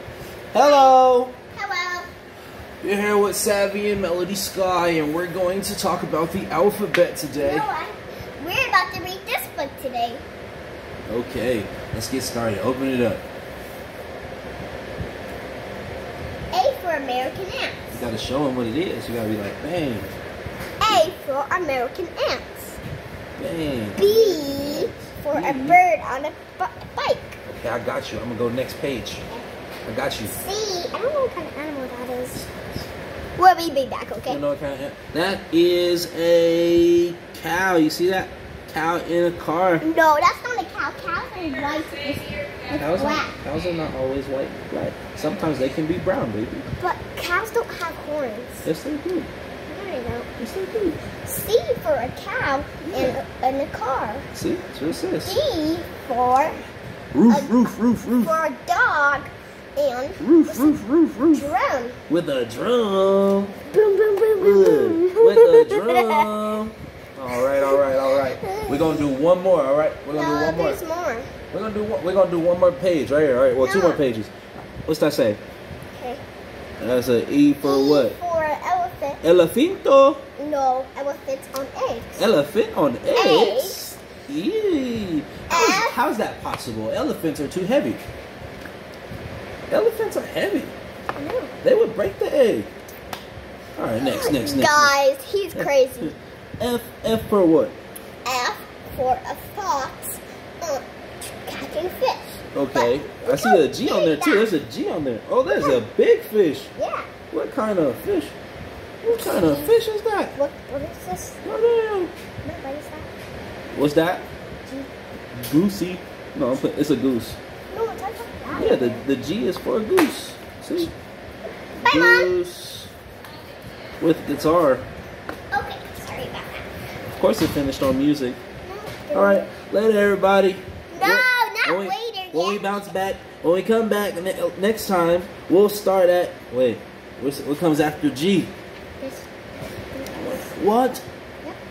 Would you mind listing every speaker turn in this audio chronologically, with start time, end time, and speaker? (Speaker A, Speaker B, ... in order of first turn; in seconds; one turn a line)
Speaker A: 0.5-1.3
Speaker B: 0.5-1.0
Speaker B: 1.5-2.1
Speaker A: 2.8-7.7
Speaker B: 7.4-10.2
Speaker A: 11.1-13.2
Speaker B: 16.5-18.0
Speaker A: 17.9-20.1
Speaker B: 20.8-22.8
Speaker A: 23.4-25.8
Speaker B: 24.0-27.4
Speaker A: 27.5-29.2
Speaker A: 29.9-30.4
Speaker B: 30.3-32.4
Speaker B: 33.4-34.4
Speaker A: 34.3-39.9
Speaker B: 39.8-43.4
Speaker A: 42.7-46.7
Speaker B: 46.8-48.7
Speaker A: 48.6-49.3
Speaker B: 49.7-50.3
Speaker A: 50.4-51.0
Speaker B: 51.3-54.3
Speaker A: 52.9-53.2
Speaker A: 54.3-55.4
Speaker B: 55.2-56.6
Speaker A: 57.1-58.4
Speaker B: 57.3-57.6
Speaker B: 58.2-60.7
Speaker A: 60.2-61.5
Speaker B: 61.3-62.0
Speaker A: 62.1-63.6
Speaker B: 63.7-66.3
Speaker A: 64.4-70.8
Speaker B: 67.4-69.1
Speaker B: 70.1-71.3
Speaker A: 71.5-74.3
Speaker B: 73.6-74.0
Speaker A: 74.9-75.4
Speaker B: 75.9-76.2
Speaker A: 76.8-78.2
Speaker B: 77.6-79.2
Speaker A: 79.2-80.2
Speaker B: 80.4-82.3
Speaker A: 82.2-88.0
Speaker B: 83.1-83.9
Speaker B: 85.5-86.0
Speaker A: 89.7-90.7
Speaker B: 91.2-91.5
Speaker A: 91.6-92.7
Speaker A: 93.8-94.9
Speaker B: 94.0-96.1
Speaker A: 95.5-97.8
Speaker B: 98.2-104.5
Speaker A: 102.5-106.7
Speaker B: 105.5-105.8
Speaker B: 106.8-107.1
Speaker A: 107.3-108.3
Speaker A: 109.0-110.3
Speaker B: 109.1-109.8
Speaker B: 110.3-111.4
Speaker A: 111.4-112.1
Speaker B: 112.5-113.1
Speaker A: 113.7-114.3
Speaker A: 115.3-117.4
Speaker B: 117.7-119.0
Speaker A: 118.5-120.9
Speaker B: 121.8-122.4
Speaker A: 121.8-122.9
Speaker A: 124.0-124.8
Speaker B: 125.5-126.7
Speaker A: 127.2-128.4
Speaker B: 128.6-129.5
Speaker A: 129.1-138.5
Speaker B: 130.9-132.9
Speaker B: 139.0-140.5
Speaker A: 140.1-141.0